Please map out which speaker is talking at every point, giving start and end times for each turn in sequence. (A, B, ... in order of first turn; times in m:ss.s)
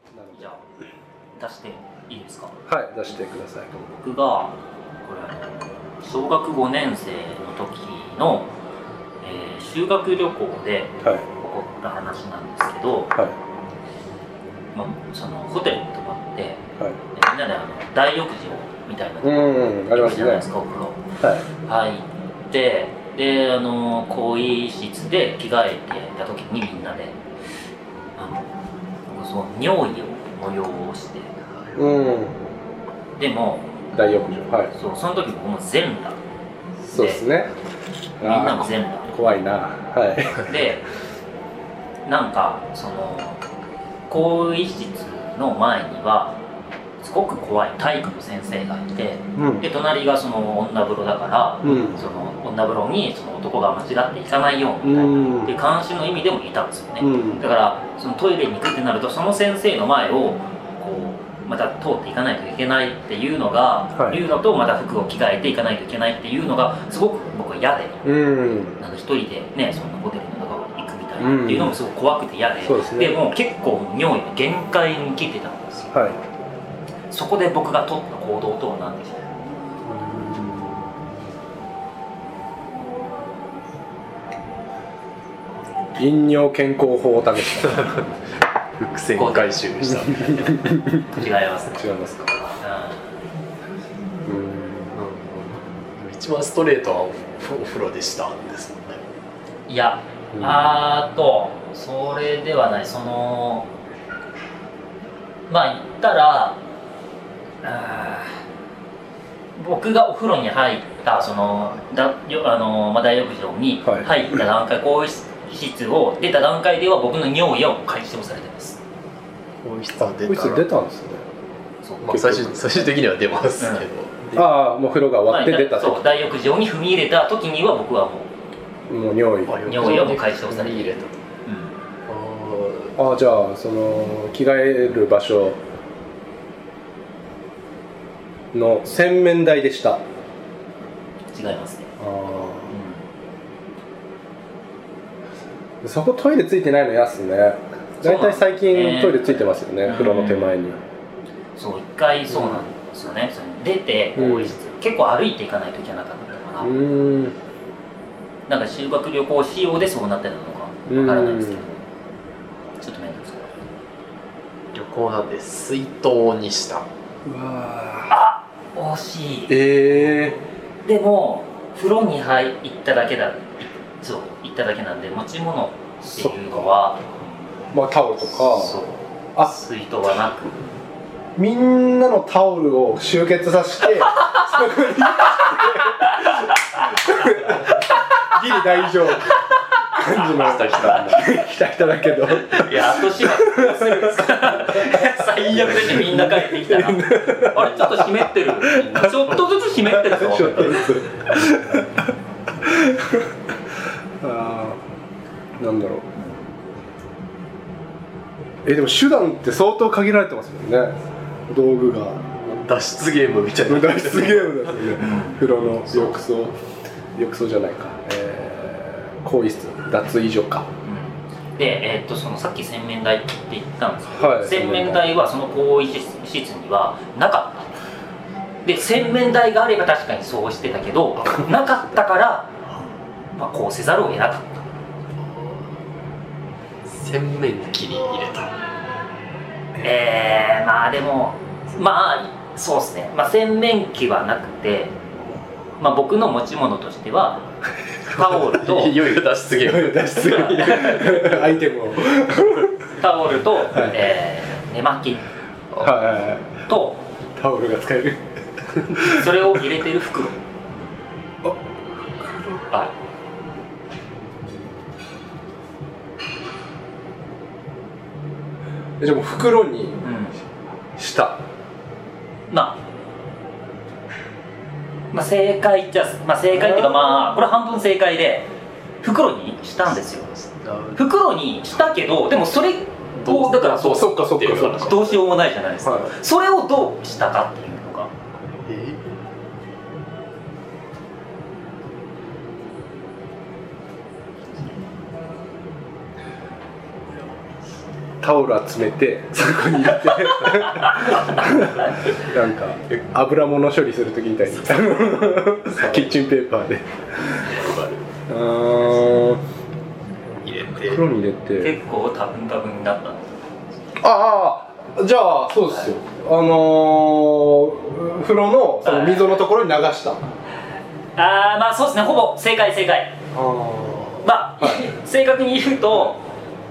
0:00.1-0:00.5 A
0:00.3-0:00.6 B
0:01.4-0:02.5 B
0:02.7-0:03.8 A
0:03.8-0:04.5 B
0:05.0-0:08.5 B
0:09.2-0:13.2 B
0:14.7-0:21.0 B
0:19.2-0:20.4 A
0:21.5-0:27.2 B
0:28.2-0:28.5 B
0:29.1-0:31.3 B
0:31.8-0:32.5 A
0:33.2-0:33.7 B
0:33.9-0:34.7 A
0:34.7-0:36.2 B
0:36.8-0:37.2 B
0:36.9-0:37.5 A
0:38.2-0:40.5 A
0:38.2-0:39.1 B
0:40.3-0:40.9 B
0:42.0-0:43.4 B
0:44.1-0:46.4 B
0:47.0-1:08.0 B
0:49.4-0:49.7 A
0:51.6-0:52.0 A
0:54.8-0:55.5 A
0:57.0-0:57.4 A
1:08.0-1:08.8 A
1:08.8-1:15.9 B
1:11.2-1:11.8 A
1:12.6-1:13.2 A
1:15.9-1:16.2 A
1:17.1-1:19.3 B
1:19.8-1:20.9 A
1:26.0-1:28.0 A
1:28.8-1:30.7 C
1:29.1-1:29.7 B
1:30.4-1:31.0 A
1:30.9-1:32.0 B
1:31.7-1:32.3 A
1:32.6-1:33.0 B
1:34.2-1:35.0 A
1:34.9-1:39.0 C
1:39.7-1:43.7 B
1:40.3-1:40.7 A
1:45.5-1:46.6 B
1:47.6-1:48.4 B
1:49.6-1:58.8 B
1:53.8-1:54.1 A
1:59.6-2:00.7 C
2:00.0-2:01.2 A
2:01.8-2:02.4 B
2:02.0-2:04.4 C
2:02.1-2:02.6 A
2:03.6-2:03.8 B
2:04.3-2:06.2 A
2:05.2-2:08.3 B
2:08.9-2:10.0 A
2:09.5-2:11.1 C
2:09.7-2:11.7 B
2:12.1-2:13.0 C
2:13.0-2:15.6 A
2:18.5-2:20.0 A
2:21.3-2:21.9 B
2:22.0-2:22.7 A
2:22.7-2:23.0 B
2:25.8-2:30.8 A
2:28.0-2:30.6 B
2:31.6-2:36.7 B
2:32.3-2:32.6 A
2:34.2-2:34.6 A
2:36.6-2:37.3 A
2:38.5-2:41.8 B
2:40.9-2:41.6 A
2:42.8-2:43.5 B
2:44.7-2:46.8 C
2:47.2-2:48.1 A
2:48.1-2:49.6 B
2:49.5-2:50.4 A
2:50.8-2:57.1 B
2:56.0-2:56.7 A
2:57.7-2:58.8 A
2:58.2-3:00.6 B
3:01.4-3:22.1 A
3:05.3-3:06.8 B
3:07.9-3:08.3 B
3:10.2-3:11.3 C
3:12.5-3:21.5 B
3:22.6-3:23.2 A
3:24.2-3:24.8 A
3:25.6-3:26.1 A
3:26.2-3:26.4 B
3:28.6-3:30.9 A
3:31.5-3:32.4 A
3:32.5-3:35.0 C
3:33.7-3:36.6 A
3:35.0-3:35.4 B
3:35.9-3:36.2 C
3:37.2-3:40.7 A
3:40.8-3:47.7 B
3:44.1-3:45.1 A
3:48.6-3:52.5 B
3:53.4-3:54.7 B
3:55.2-3:55.7 C
3:56.8-3:58.5 C
3:59.8-4:05.0 B
4:05.8-4:07.5 B
4:08.0-4:09.0 B
4:08.4-4:11.6 C
4:09.6-4:12.8 A
4:10.2-4:11.2 B
4:13.0-4:15.2 B
4:13.7-4:14.0 A
4:15.7-4:16.0 C
4:15.8-4:16.6 A
4:15.8-4:17.0 B
4:17.4-4:18.2 A
4:18.9-4:19.5 A
4:19.0-4:20.4 B
4:22.2-4:22.6 A
4:29.0-4:30.1 A
4:30.0-4:30.4 B
4:31.0-4:31.4 A
4:32.5-4:32.8 B
4:35.1-4:38.5 B
4:36.6-4:37.1 A
4:39.0-4:40.3 B
4:40.4-4:41.0 C
4:41.0-4:48.1 B
4:43.2-4:45.3 C
4:43.8-4:45.0 A
4:45.8-4:46.1 A
4:48.6-4:49.1 C
4:58.2-5:07.5 A
5:04.7-5:06.2 C
5:07.3-5:08.1 C
5:08.3-5:09.4 A
5:10.4-5:11.0 C
5:10.8-5:11.8 A
5:11.6-5:13.3 B
5:14.0-5:20.2 A
5:18.8-5:19.4 B
5:21.2-5:23.1 B
5:23.3-5:24.9 A
5:24.2-5:26.2 B